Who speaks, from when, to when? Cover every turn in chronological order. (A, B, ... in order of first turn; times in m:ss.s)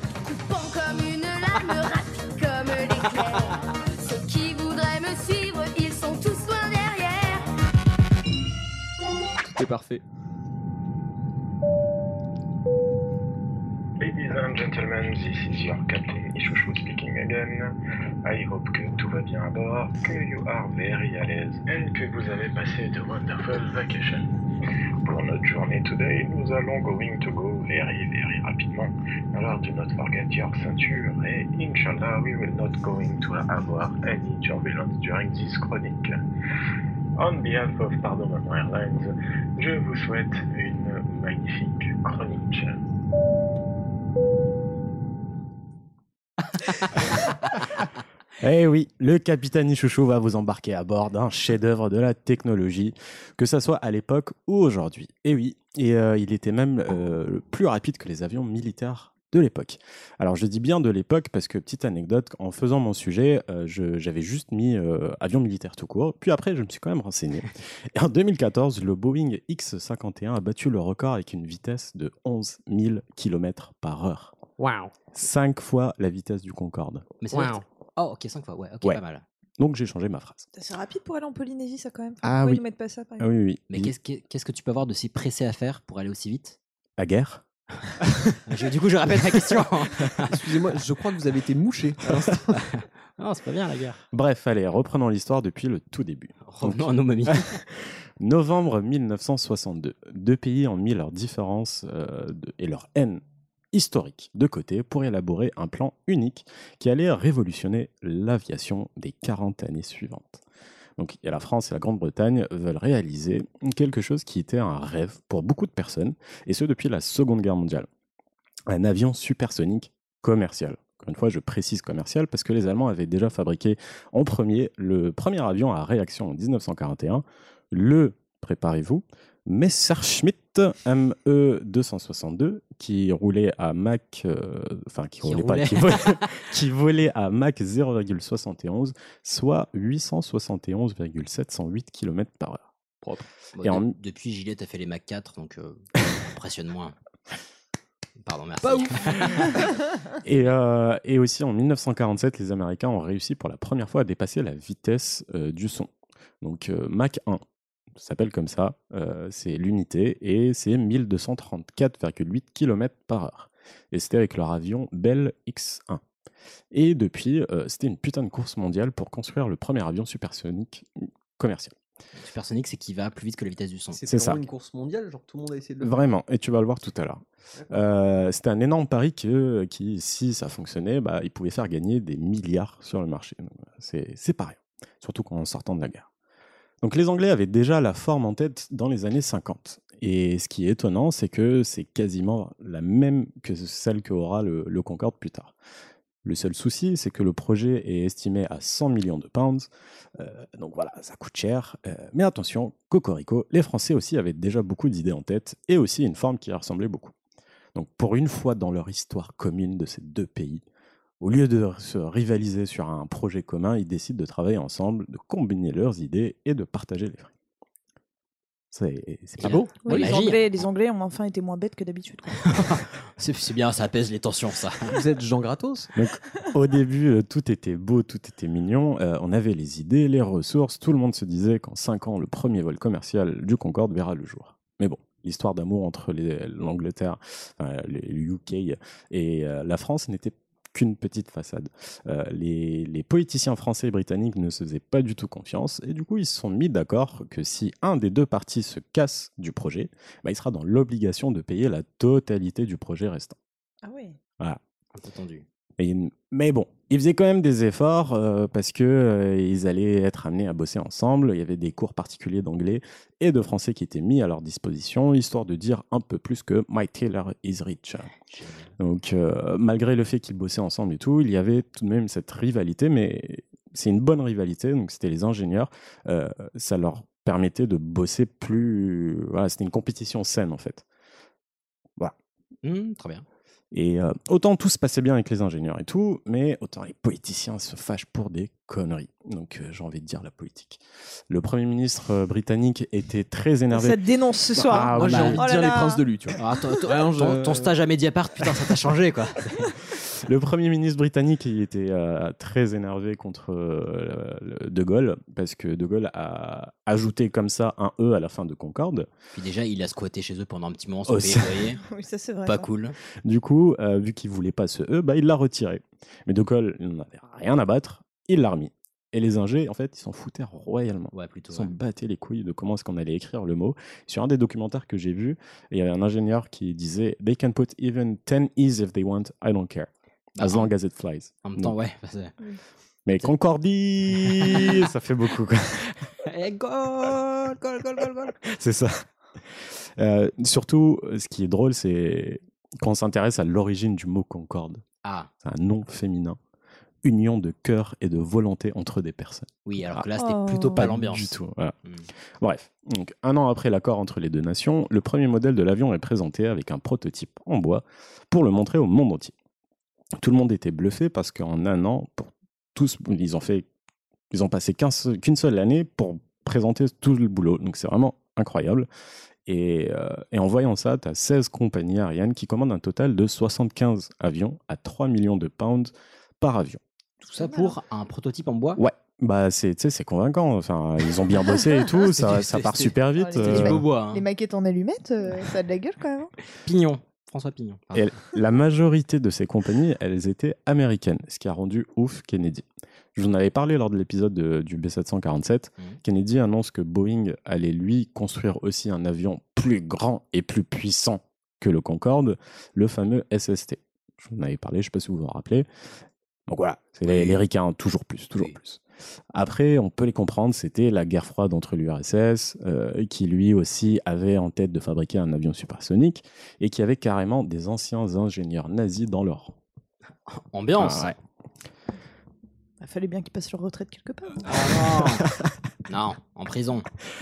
0:00.2-0:07.5 A
0:09.4-0:10.0 B
0:14.0-0:17.4 C
0:14.2-0:14.9 D
0:17.0-0:17.5 D
0:18.3-0:24.2 C
0:19.7-0:20.4 D
0:21.3-0:21.6 D
0:22.7-0:23.9 D
0:25.1-0:36.0 C
0:25.9-0:27.6 D
0:37.2-0:42.7 C
0:48.4-1:14.3 D
1:14.6-1:14.9 B
1:15.1-1:17.0 D
1:17.2-1:19.2 E
1:17.3-1:17.6 B
1:19.6-1:20.4 D
1:20.5-1:23.3 F
1:22.2-1:22.6 D
1:23.2-1:23.9 D
1:23.7-1:26.6 E
1:27.0-1:27.4 D
1:28.0-1:28.3 D
1:28.4-1:30.3 E
1:30.2-1:32.7 B
1:32.6-1:34.0 E
1:34.1-1:50.4 D
1:36.4-1:37.6 E
1:51.0-1:57.9 D
1:58.7-2:22.7 D
2:15.2-2:16.4 E
2:23.5-2:26.9 E
2:23.6-2:24.0 D
2:28.2-2:29.6 E
2:28.6-2:29.8 B
2:30.2-2:35.9 D
2:36.4-2:37.4 D
2:37.9-2:46.0 D
2:46.7-2:51.7 D
2:52.2-2:54.0 E
2:53.9-2:56.0 B
2:54.1-2:54.4 D
2:55.8-3:06.1 D
3:06.8-3:15.5 D
3:16.2-3:27.1 D
3:27.7-3:30.6 D
3:31.2-3:37.3 D
3:38.7-3:40.1 D
3:39.4-3:40.4 E
3:39.8-3:42.6 F
3:42.4-3:44.9 E
3:44.9-3:45.9 B
3:45.9-4:13.4 D
4:13.8-4:14.2 F
4:14.9-4:15.4 E
4:15.8-4:28.1 D
4:28.2-4:28.7 E
4:28.8-4:40.8 D
4:42.6-4:43.2 E
4:43.7-4:54.0 D
4:53.7-4:56.0 F
4:54.5-4:55.4 D
4:54.7-4:57.7 B
4:56.4-4:59.7 E
5:00.0-5:09.1 D
5:09.3-5:11.8 E
5:11.1-5:11.5 D
5:11.8-5:12.7 F
5:12.4-5:13.0 E
5:13.2-5:31.7 D
5:21.1-5:21.7 E
5:30.4-5:30.7 E
5:31.4-5:32.4 E
5:33.0-5:35.9 D
5:34.2-5:34.8 E
5:36.1-5:38.3 E
5:38.3-5:39.0 D
5:40.0-5:44.8 D
5:45.0-5:45.3 E
5:45.4-5:46.4 D
5:47.0-5:50.0 D
5:49.6-5:52.1 E
5:50.2-5:50.9 F
5:50.8-5:51.7 D
5:52.4-5:59.3 D
6:00.2-6:03.6 D
6:04.3-6:08.9 D
6:09.4-6:16.8 D
6:17.2-6:18.8 E
6:17.4-6:17.7 F
6:18.8-6:23.8 D
6:22.0-6:24.2 E
6:23.2-6:26.3 F
6:26.5-6:28.1 E
6:27.9-6:45.6 D
6:46.5-6:48.8 D
6:47.0-6:47.4 E
6:49.3-6:59.5 D
7:00.3-7:01.2 E
7:00.8-7:01.2 D
7:02.8-7:04.5 F
7:04.4-7:05.3 E
7:04.5-7:05.5 D
7:05.9-7:06.9 E